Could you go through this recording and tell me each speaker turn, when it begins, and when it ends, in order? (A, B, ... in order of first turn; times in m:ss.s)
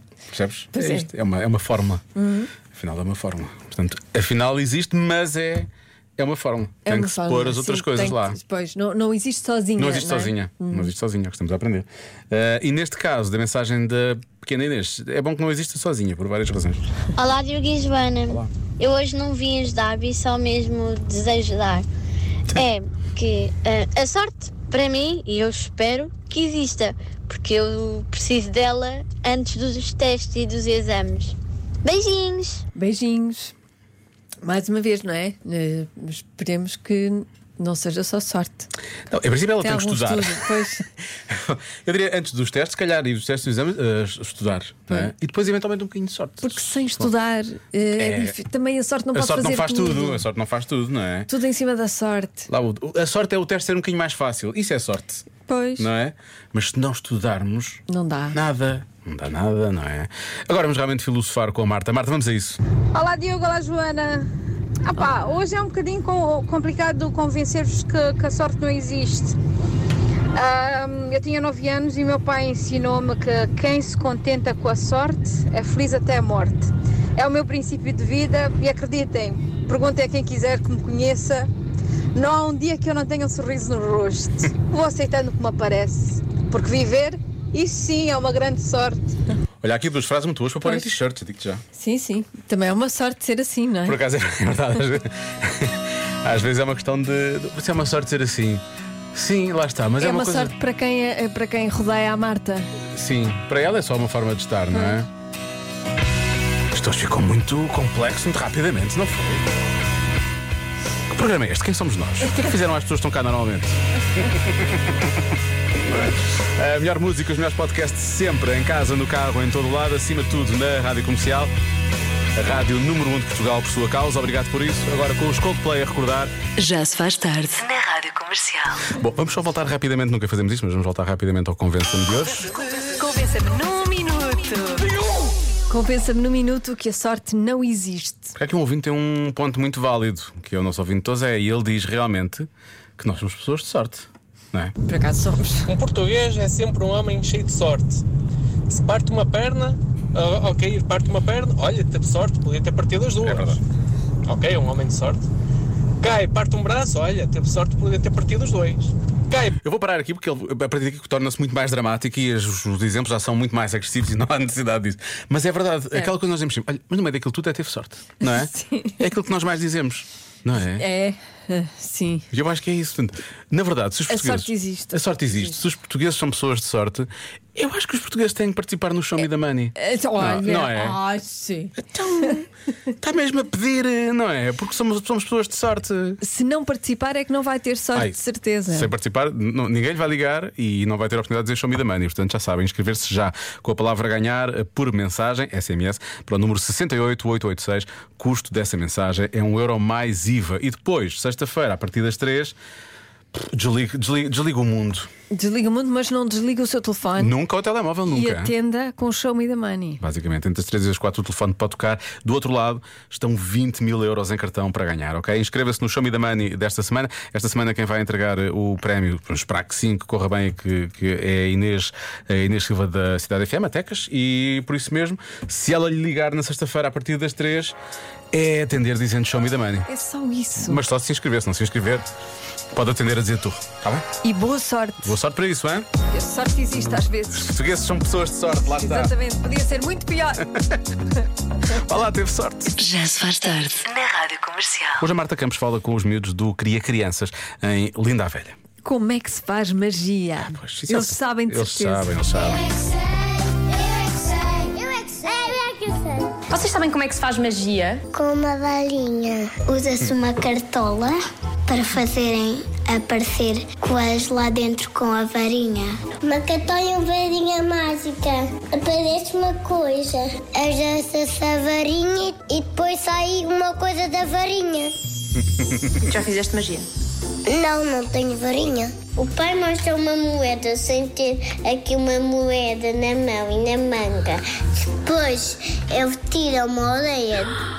0:00.3-0:02.0 A
0:00.7-0:01.1 B
0:02.2-0:02.5 B
0:02.7-0:08.4 A
0:06.9-0:10.9 B
0:09.8-0:16.9 A
0:17.2-0:21.9 C
0:22.6-0:32.6 C
0:32.8-0:33.5 B
0:34.4-0:38.7 B
0:39.1-0:40.5 A
0:39.6-0:40.8 B
0:41.3-0:47.1 A
0:46.4-0:50.3 B
0:48.0-0:48.4 A
0:49.1-0:51.3 A
0:51.3-0:52.5 B
0:52.5-1:02.6 A
0:55.4-0:55.9 B
0:57.9-0:58.4 B
1:02.9-1:04.3 D
1:04.9-1:09.3 D
1:05.0-1:05.3 B
1:10.4-1:21.5 D
1:22.2-1:29.1 D
1:29.6-1:31.6 A
1:30.6-1:30.9 B
1:31.8-1:34.0 B
1:33.8-1:38.6 A
1:39.1-1:40.5 A
1:40.0-1:42.7 B
1:43.0-1:45.1 A
1:46.7-1:49.5 A
1:51.1-1:54.9 A
1:55.8-2:01.5 A
2:02.4-2:06.3 A
2:06.6-2:08.8 E
2:08.9-2:12.5 A
2:13.0-2:14.9 B
2:15.7-2:18.3 B
2:18.4-2:24.8 A
2:24.8-2:25.7 B
2:25.7-2:28.0 F
2:28.7-2:33.5 F
2:33.2-2:33.6 A
2:34.3-2:35.2 F
2:36.0-2:39.5 F
2:39.6-2:50.9 A
2:48.2-2:49.0 B
2:50.6-2:52.3 B
2:52.3-3:01.0 A
2:54.1-2:55.5 B
2:59.8-3:02.3 B
3:01.8-3:02.5 A
3:03.0-3:06.2 A
3:06.2-3:08.9 B
3:08.0-3:22.6 A
3:23.3-3:25.1 A
3:25.3-3:27.4 B
3:27.2-3:28.5 A
3:28.1-3:30.0 B
3:30.0-3:47.8 A
3:48.3-3:49.9 A
3:49.9-3:50.8 B
3:50.6-3:52.1 A
3:52.7-3:54.1 A
3:54.2-3:55.2 B
3:55.0-3:55.9 A
3:56.1-3:57.5 B
3:56.8-3:59.1 A
3:58.5-4:00.4 B
4:01.7-4:02.8 A
4:02.8-4:05.0 E
4:05.0-4:08.6 A
4:08.8-4:12.1 B
4:10.4-4:12.7 A
4:13.7-4:16.3 G
4:16.5-4:18.0 H
4:18.1-4:34.9 G
4:35.6-4:35.9 A
4:36.0-4:36.9 H
4:37.5-4:47.5 G